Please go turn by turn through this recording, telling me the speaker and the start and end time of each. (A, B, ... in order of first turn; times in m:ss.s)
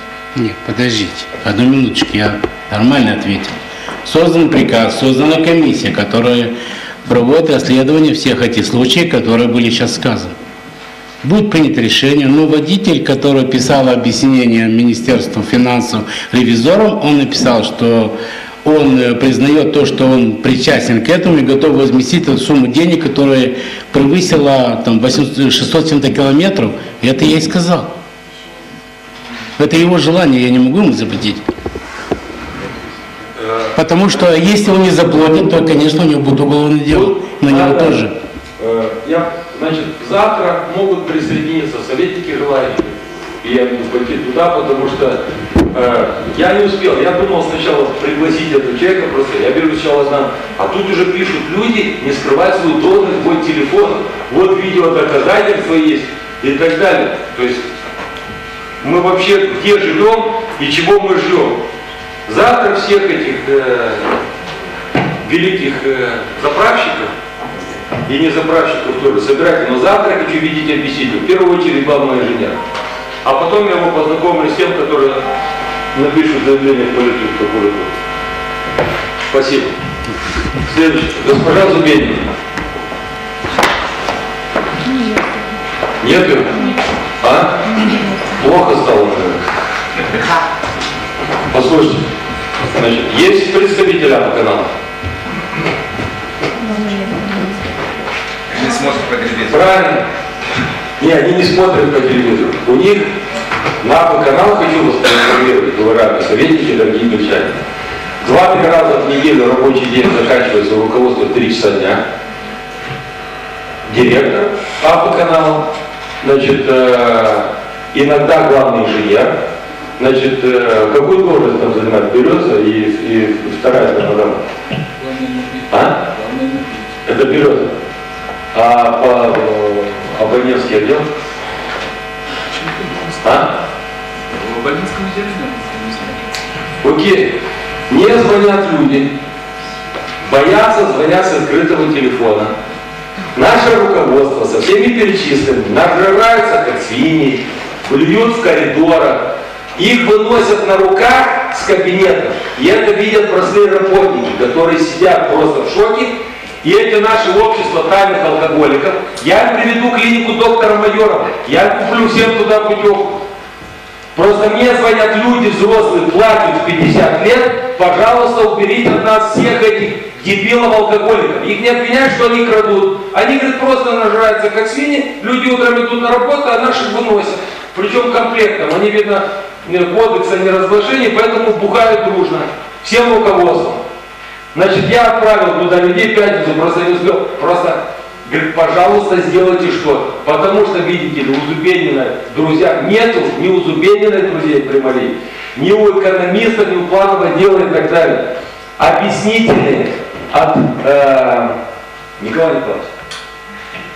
0:00.3-0:03.5 A
0:04.0-0:06.5 A
0:07.0-0:10.3 A
0:11.2-0:27.9 A
0:29.6-0:31.4 A
0:33.4-0:34.2 B
0:33.7-0:38.1 A
0:36.9-0:38.0 B
0:38.6-0:45.2 B
0:45.7-0:57.6 B
0:58.8-1:01.6 B
1:02.3-1:04.1 B
1:05.2-1:07.1 B
1:08.0-1:12.6 B
1:13.2-1:15.2 B
1:15.9-1:17.9 B
1:19.3-1:19.7 B
1:20.6-1:22.2 B
1:26.0-1:26.6 B
1:27.2-1:27.6 B
1:28.3-1:29.4 B
1:31.5-1:32.0 B
1:32.6-1:34.7 B
1:38.5-1:39.4 C
1:39.4-1:40.0 B
1:41.0-1:43.1 B
1:43.8-1:47.6 B
1:48.2-1:52.0 B
1:53.9-1:55.6 B
1:56.2-1:59.3 B
2:00.0-2:04.4 B
2:05.0-2:06.9 C
2:05.7-2:06.0 B
2:07.0-2:07.7 B
2:08.5-2:11.0 B
2:12.5-2:13.2 C
2:13.2-2:13.5 B
2:14.3-2:16.4 C
2:16.8-2:17.4 B
2:17.9-2:19.1 B
2:20.2-2:22.5 B
2:23.3-2:36.1 B
2:36.6-2:43.2 B
2:44.1-3:03.8 B
3:04.5-3:18.2 B
3:18.8-3:21.5 B
3:22.2-3:22.9 B